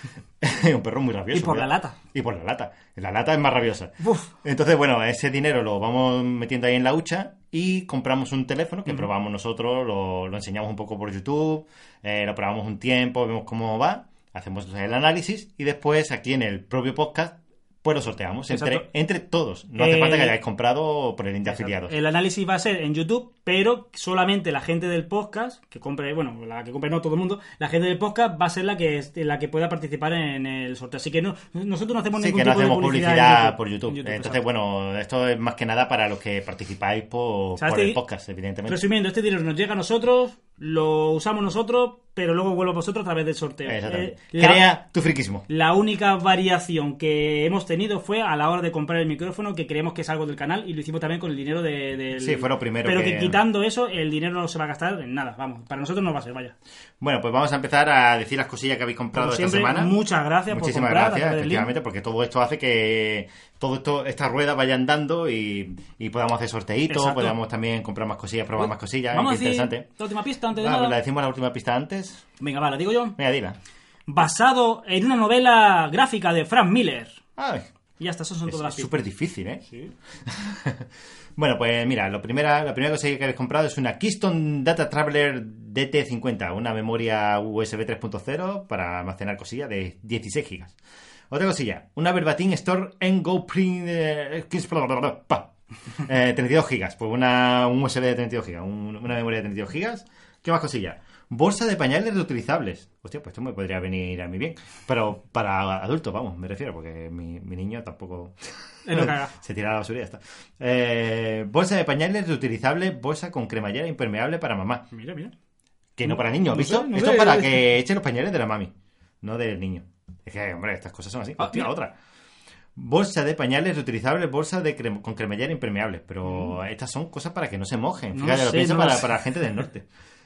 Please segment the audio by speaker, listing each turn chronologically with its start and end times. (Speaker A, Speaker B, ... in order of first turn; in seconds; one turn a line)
Speaker A: 0.4-21.9
Speaker B: 1.3-2.0
Speaker B: 4.0-4.3
Speaker B: 18.5-18.8
Speaker B: 19.8-20.4
Speaker B: 21.4-34.4
Speaker A: 32.2-38.8
Speaker B: 37.6-38.0
Speaker B: 38.7-44.6
Speaker A: 43.7-45.5
Speaker B: 45.5-56.5
Speaker A: 52.2-53.4
Speaker A: 57.0-60.0
Speaker B: 59.1-61.7
Speaker A: 60.5-69.8
Speaker B: 66.9-67.4
Speaker B: 68.6-71.0
Speaker A: 70.5-72.3
Speaker B: 72.4-73.2
Speaker A: 73.2-73.6
Speaker B: 74.1-77.2
Speaker A: 77.4-77.7
Speaker B: 78.0-78.9
Speaker A: 78.5-79.6
Speaker A: 80.2-90.8
Speaker A: 91.3-114.8
Speaker B: 108.8-109.3
Speaker B: 114.9-115.3
Speaker A: 116.0-122.0
Speaker B: 116.0-117.7
Speaker B: 121.4-121.7
Speaker A: 122.8-129.9
Speaker B: 126.2-126.5
Speaker B: 128.1-129.2